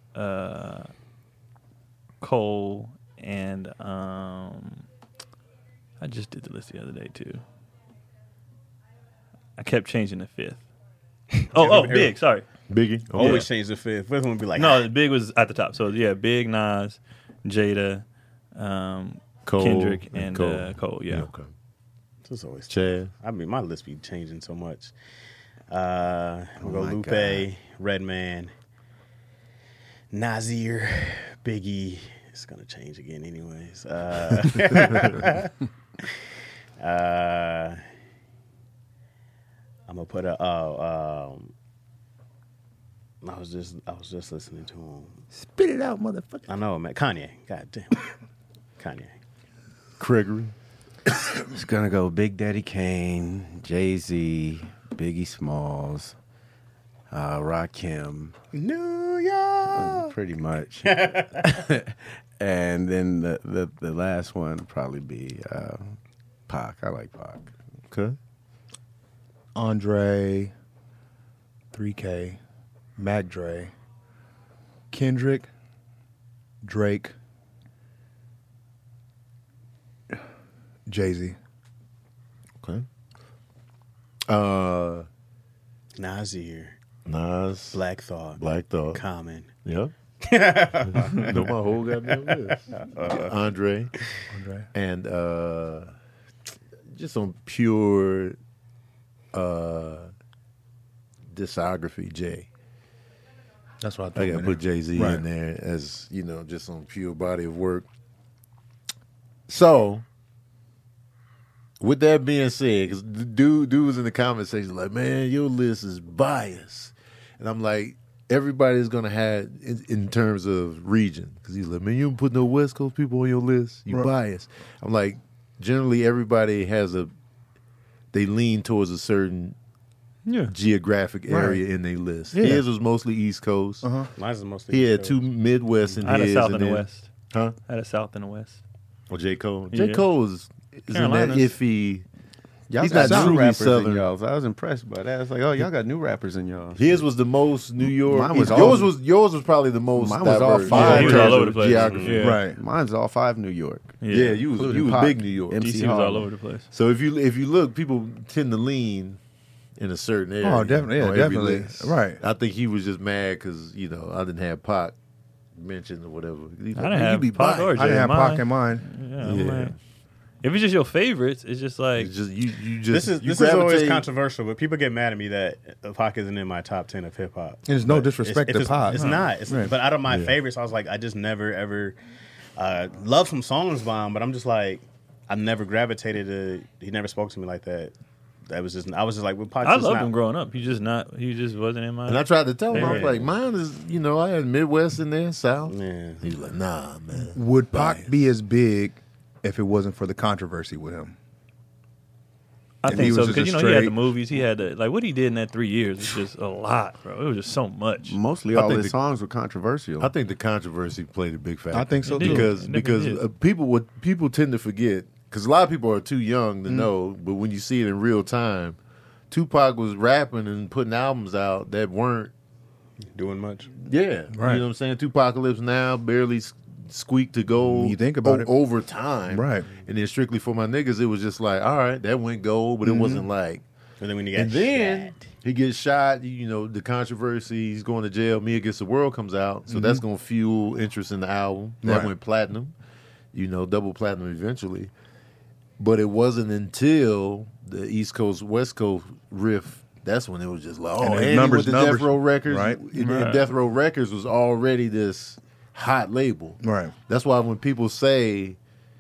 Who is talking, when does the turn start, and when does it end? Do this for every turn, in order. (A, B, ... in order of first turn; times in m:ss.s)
0:00.2-0:00.9 A
0:02.2-0:04.8 A
0:06.0-0:07.4 A
0:09.6-0:10.6 A
0:11.3-0:12.2 B
0:11.5-0:12.5 A
0:12.7-0:13.5 C
0:13.1-0:14.8 B
0:13.2-0:13.5 A
0:14.6-0:21.3 A
0:19.5-0:21.5 C
0:22.2-0:24.9 B
0:22.7-0:23.1 C
0:25.7-0:28.5 B
0:26.6-0:27.5 D
0:30.1-0:36.1 B
0:36.8-0:37.8 B
0:39.9-0:41.5 B
0:43.2-0:45.2 B
0:45.3-0:46.5 E
0:46.5-0:48.1 B
0:48.8-0:49.1 B
0:50.0-0:50.5 C
0:51.4-0:56.2 D
0:57.1-0:58.4 D
0:58.5-1:00.1 B
0:59.7-1:07.5 D
1:00.9-1:01.5 B
1:07.9-1:08.2 C
1:09.6-1:10.5 E
1:11.7-1:12.4 E
1:13.0-1:13.7 E
1:14.9-1:15.5 E
1:16.6-1:17.1 E
1:20.9-1:21.4 E
1:22.6-1:22.9 C
1:24.3-1:25.1 C
1:26.0-1:26.8 B
1:27.1-1:27.8 C
1:27.7-1:28.4 B
1:28.4-1:29.0 C
1:28.9-1:29.5 B
1:29.6-1:29.9 C
1:30.2-1:31.5 B
1:30.9-1:33.9 C
1:32.1-1:33.3 B
1:34.3-1:34.7 E
1:34.7-1:35.9 C
1:36.9-1:38.4 C
1:39.3-1:40.1 C
1:41.3-1:42.5 C
1:43.8-1:45.2 E
1:44.2-1:47.9 C
1:49.5-1:50.0 C
1:51.8-2:07.1 C
2:08.1-2:09.6 C
2:10.3-2:10.5 A
2:10.5-2:13.9 C
2:11.3-2:11.6 E
2:12.3-2:12.6 E
2:13.8-2:14.1 E
2:14.2-2:15.2 B
2:14.7-2:17.6 C
2:16.0-2:17.1 A
2:17.7-2:18.6 A
2:19.1-2:22.0 C
2:19.7-2:20.0 A
2:20.9-2:21.5 A
2:22.7-2:27.1 D
2:22.8-2:24.1 C
2:23.0-2:23.4 E
2:26.8-2:32.2 C
2:28.0-2:28.9 D
2:30.0-2:34.0 D
2:30.7-2:32.4 A
2:31.8-2:32.2 B
2:32.2-2:32.6 E
2:34.0-2:34.4 A
2:34.1-2:35.6 C
2:34.5-2:36.3 D
2:35.6-2:36.7 A
2:36.7-2:39.2 C
2:39.8-2:44.9 C
2:40.4-2:42.2 E
2:45.6-2:48.0 C
2:46.8-2:49.8 A
2:47.8-2:48.9 E
2:49.2-2:49.8 C
2:50.4-2:52.1 A
2:52.0-2:54.1 C
2:52.9-3:02.0 B
2:57.7-2:59.7 E
2:58.9-2:59.3 A
3:00.1-3:00.4 C
3:02.6-3:07.9 B
3:08.5-3:10.1 B
3:09.6-3:13.1 A
3:12.1-3:18.3 C
3:12.8-3:13.2 B
3:15.7-3:16.3 B
3:17.3-3:21.2 E
3:22.8-3:28.2 A
3:22.9-3:24.0 E
3:28.1-3:30.1 D
3:28.5-3:29.0 C
3:30.0-3:38.8 C
3:31.7-3:32.5 E
3:32.0-3:33.2 A
3:39.3-3:42.3 C
3:43.1-3:43.7 B
3:43.8-3:53.6 C
3:44.4-3:44.6 E
3:47.6-3:48.5 E
3:49.3-3:49.7 E
3:52.8-3:53.2 E
3:54.0-3:55.2 B
3:54.3-4:02.7 C
3:59.7-4:00.0 E
4:01.8-4:02.1 E
4:03.3-4:04.9 C
4:05.8-4:18.6 C
4:11.0-4:12.8 E
4:12.9-4:13.5 A
4:16.6-4:16.9 E